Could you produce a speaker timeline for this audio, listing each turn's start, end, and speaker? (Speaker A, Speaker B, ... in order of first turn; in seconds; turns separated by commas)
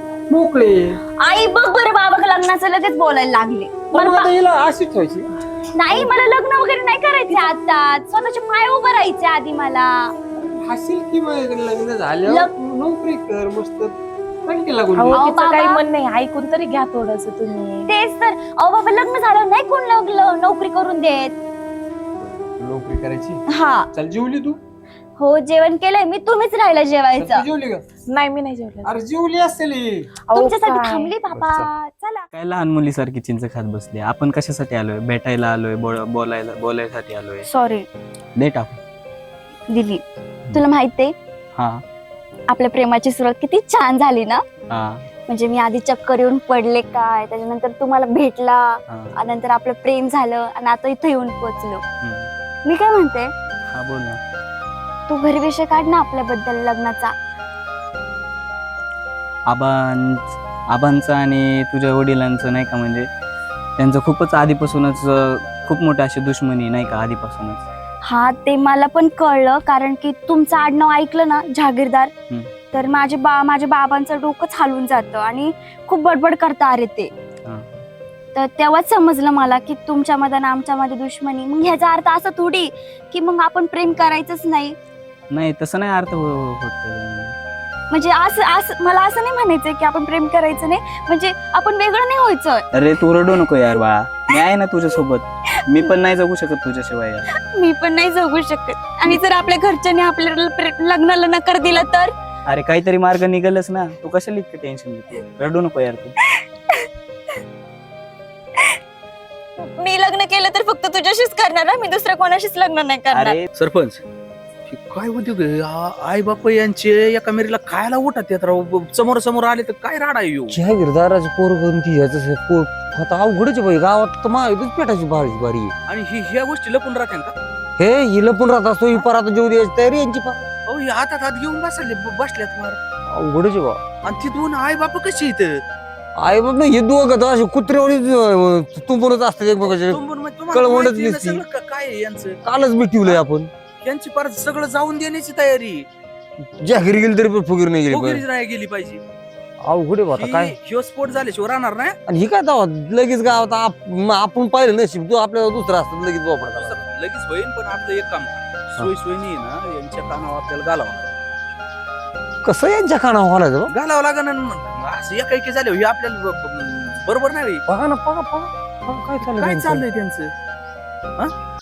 Speaker A: 0.3-1.0, Speaker B: 1.2-4.3, Speaker A: 3.9-5.3, Speaker B: 5.7-10.1, Speaker A: 10.3-13.9, Speaker B: 12.2-12.5, Speaker A: 14.4-15.2, Speaker C: 14.9-17.9, Speaker B: 15.2-15.8, Speaker B: 17.9-21.3, Speaker A: 22.2-23.4, Speaker B: 23.5-23.9, Speaker A: 23.9-24.6, Speaker B: 25.2-27.4, Speaker A: 27.1-27.8, Speaker C: 28.1-28.9, Speaker A: 28.8-30.1, Speaker C: 30.3-31.1, Speaker B: 30.3-32.2, Speaker D: 32.3-37.5, Speaker B: 37.5-37.9, Speaker D: 38.4-38.7, Speaker B: 39.7-40.0, Speaker B: 40.5-41.1, Speaker D: 41.5-41.8, Speaker B: 42.5-44.4, Speaker D: 44.7-45.0, Speaker B: 45.3-51.8, Speaker D: 52.0-52.3, Speaker B: 52.6-53.3, Speaker D: 53.7-54.2, Speaker B: 55.1-57.1, Speaker D: 59.5-63.1, Speaker D: 63.8-67.7, Speaker B: 68.0-72.1, Speaker B: 72.7-77.1, Speaker D: 77.4-77.8, Speaker B: 78.3-84.8, Speaker D: 85.3-87.3, Speaker B: 87.9-92.6, Speaker D: 92.7-97.2, Speaker B: 97.4-102.1, Speaker D: 102.5-106.1, Speaker B: 106.4-106.9, Speaker B: 109.6-113.4, Speaker D: 113.1-113.5, Speaker E: 113.5-114.0, Speaker E: 114.7-120.6, Speaker F: 120.5-125.7, Speaker E: 125.9-127.3, Speaker F: 127.8-130.5, Speaker E: 130.6-132.8, Speaker F: 133.1-133.8, Speaker E: 134.0-135.6, Speaker F: 136.2-141.4, Speaker E: 139.7-142.4, Speaker F: 142.4-143.5, Speaker E: 143.8-145.8, Speaker F: 146.6-148.2, Speaker E: 147.9-149.0, Speaker F: 149.6-150.5, Speaker E: 150.1-151.9, Speaker F: 152.1-156.8, Speaker E: 156.4-161.1, Speaker F: 162.4-163.7, Speaker E: 163.7-167.6, Speaker F: 167.7-169.8, Speaker E: 168.9-170.3